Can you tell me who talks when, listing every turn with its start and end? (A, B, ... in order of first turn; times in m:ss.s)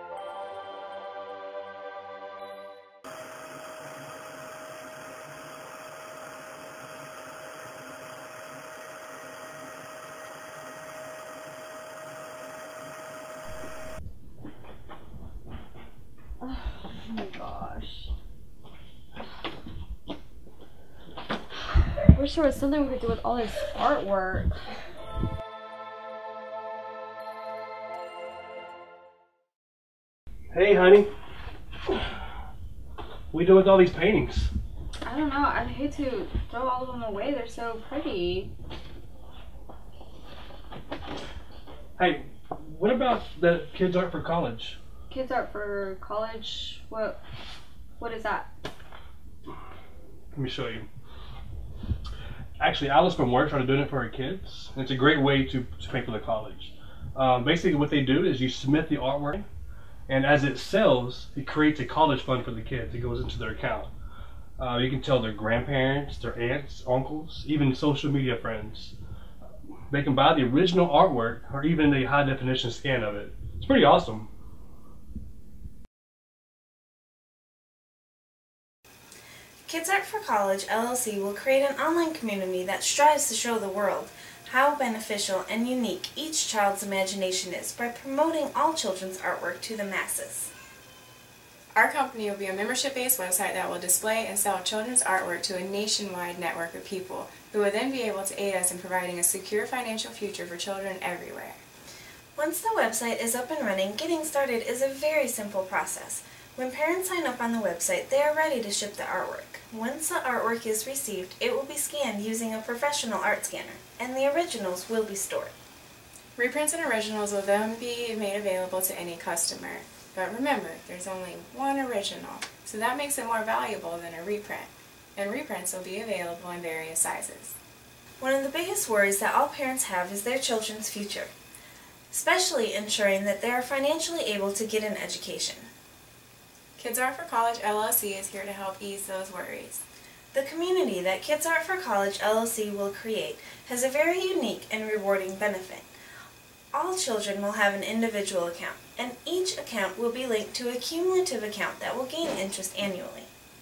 0:16.4-0:18.1 A
0:22.1-0:24.6 A
0:30.5-0:31.1 B
0:33.3-0:34.5 B
0:35.0-0:38.5 A
0:42.0-0:44.8 B
0:45.1-0:47.2 A
0:48.0-0:48.5 A
0:50.3-0:50.9 B
0:52.6-0:59.4 B
1:00.1-1:03.9 B
1:04.6-1:09.0 B
1:09.9-1:14.3 B
1:19.7-1:30.5 C
1:31.8-1:41.6 D
1:42.4-1:55.5 C
1:56.4-2:07.6 D
2:08.2-2:11.3 C
2:12.1-2:15.7 C
2:16.8-2:19.8 D
2:20.3-2:25.9 C
2:26.7-2:33.3 C